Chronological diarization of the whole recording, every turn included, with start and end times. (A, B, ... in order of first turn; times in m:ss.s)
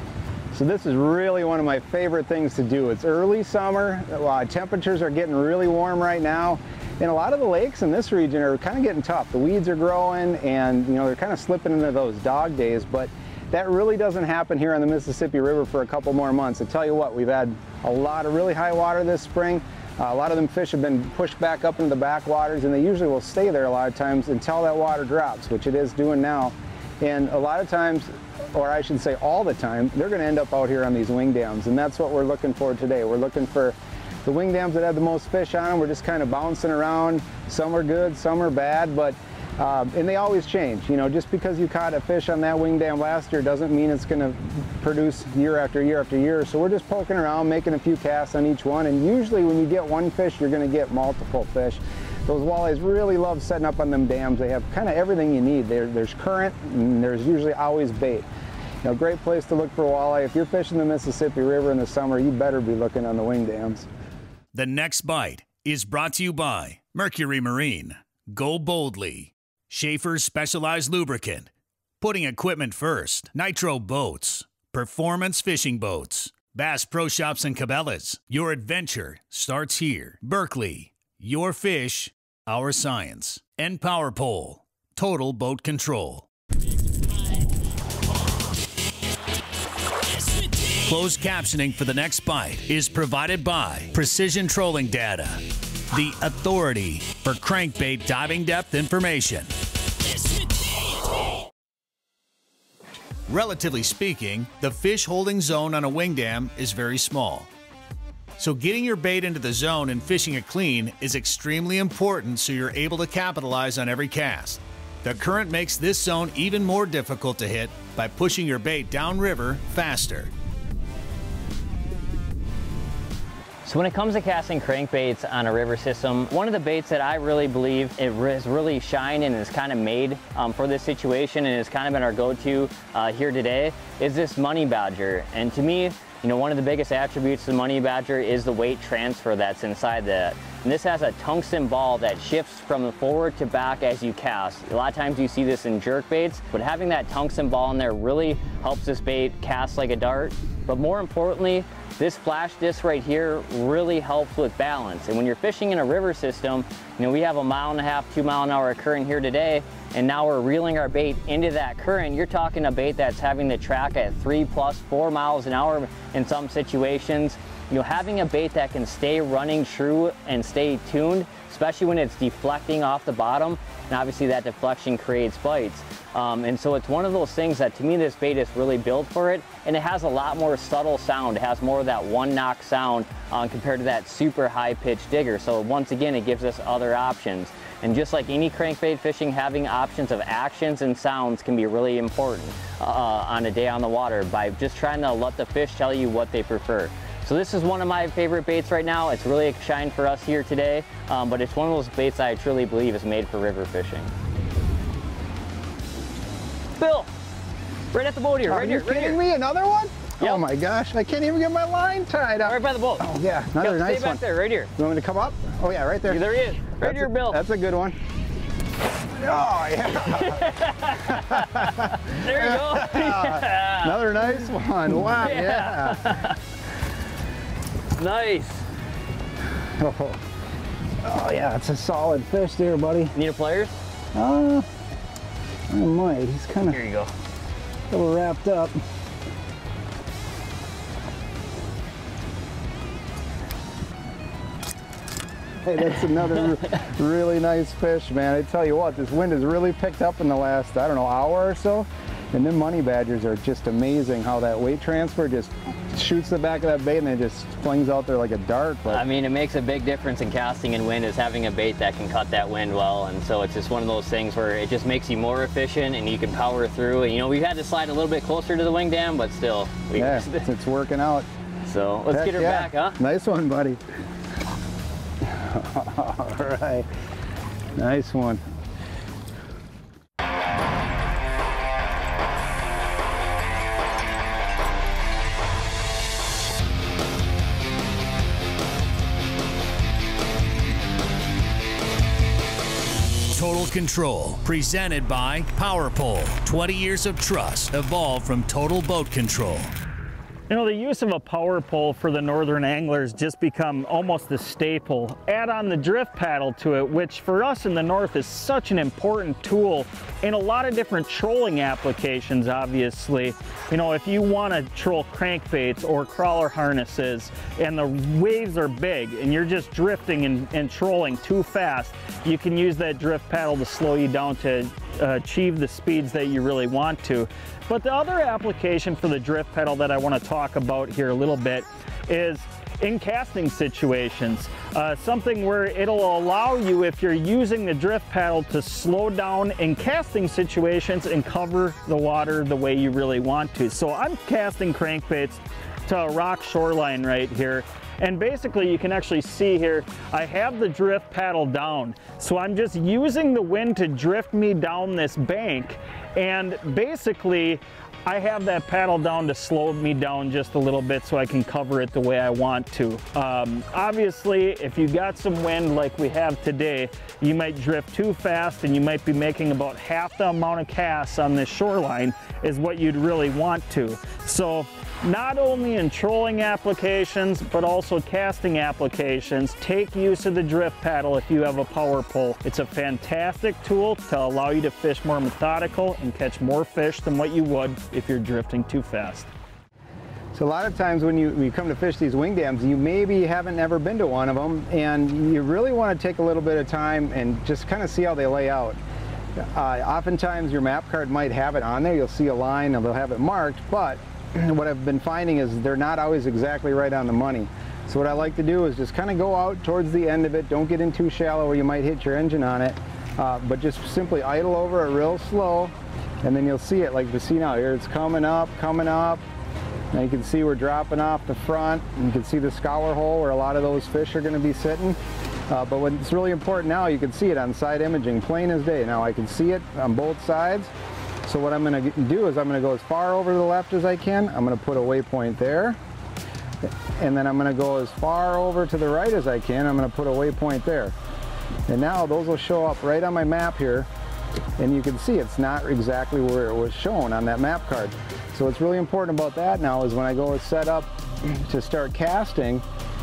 0:00.5-0:58.3 A
0:58.8-1:03.9 A
1:04.5-1:26.3 B
1:30.8-1:39.5 B
1:43.3-1:47.5 B
1:48.4-2:00.3 B
2:03.6-3:24.1 C
3:26.8-3:27.1 C
3:27.9-3:29.2 C
3:28.5-3:34.2 A
3:32.4-3:34.7 C
3:34.8-3:38.0 A
3:36.1-3:37.4 C
3:39.2-3:46.0 A
3:40.0-3:44.0 C
3:45.2-3:46.4 C
3:48.0-3:48.7 C
3:49.8-3:50.2 A
3:51.0-3:53.2 A
3:53.2-3:53.7 C
3:54.1-3:54.7 A
3:55.7-3:56.8 A
3:56.7-3:57.1 C
3:57.9-3:58.8 A
4:05.6-4:19.0 A
4:18.9-4:30.5 C
4:30.0-4:31.3 A
4:31.6-4:33.0 C
4:32.1-4:33.8 A
4:35.2-4:36.9 A
4:37.8-4:38.4 A
4:53.3-4:59.7 B
5:00.5-6:29.3 D
6:30.3-6:38.8 A
6:39.4-6:59.2 A
6:59.9-7:10.7 A
7:11.2-7:15.8 A
7:17.0-7:21.0 A
7:21.7-7:23.9 A
7:24.6-7:32.6 A